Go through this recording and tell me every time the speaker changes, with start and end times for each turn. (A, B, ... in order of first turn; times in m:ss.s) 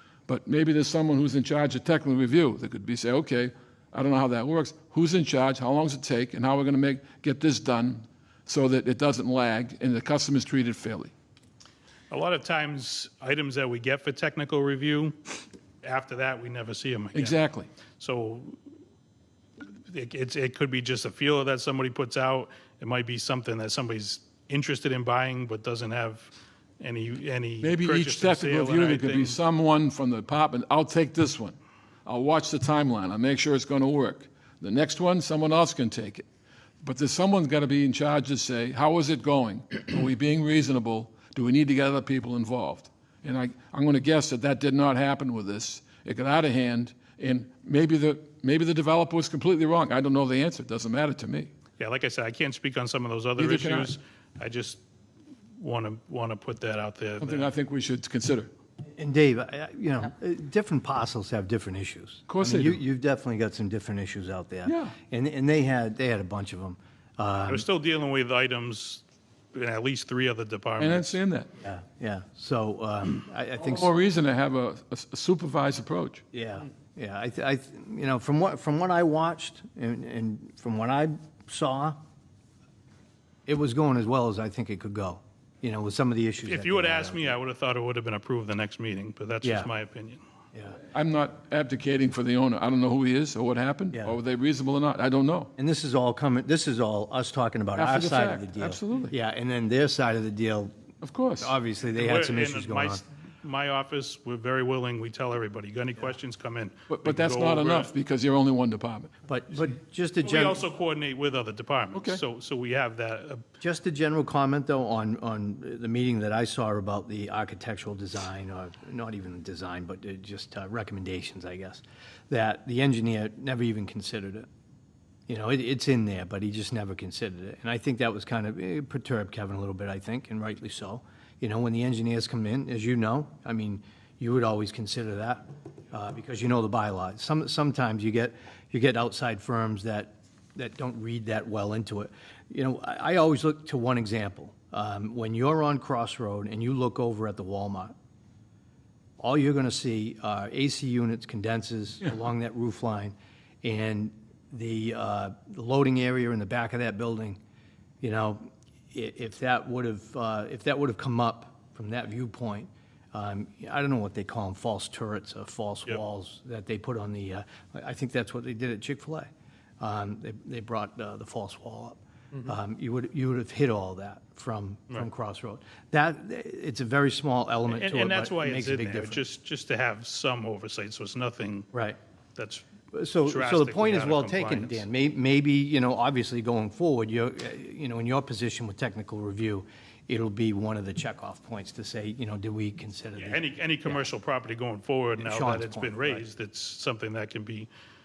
0:00.3-0:11.1 A
0:12.1-0:15.2 B
0:15.8-0:17.4 B
0:17.1-0:17.7 A
0:18.0-0:18.6 B
0:19.9-0:29.4 B
0:27.6-0:36.2 A
0:36.8-0:51.5 A
0:51.8-0:54.8 B
0:53.4-0:53.9 A
0:55.6-0:57.5 B
0:57.2-0:58.5 A
0:59.0-1:07.6 C
1:02.3-1:02.8 A
1:04.6-1:04.9 A
1:07.5-1:11.1 B
1:10.8-1:11.5 A
1:11.6-1:13.9 C
1:13.6-1:16.2 A
1:16.3-1:22.0 C
1:23.5-1:27.4 C
1:26.4-1:30.2 B
1:29.4-1:29.7 C
1:30.9-1:35.5 A
1:33.9-1:34.2 C
1:35.6-1:40.7 C
1:37.8-1:39.1 A
1:41.0-1:41.5 A
1:41.4-1:43.0 C
1:41.9-1:47.9 B
1:46.9-1:49.1 A
1:49.3-1:50.6 C
1:50.2-1:53.4 B
1:51.9-1:52.2 A
1:53.6-2:04.5 C
2:05.3-2:27.9 C
2:29.2-2:37.4 C
2:38.0-2:49.3 C
2:49.8-2:59.2 C
2:57.7-3:01.7 B
3:01.7-3:02.0 C
3:02.4-3:02.6 B
3:02.9-3:14.0 C
3:03.2-3:04.8 B
3:13.2-3:17.7 B
3:15.2-3:16.2 C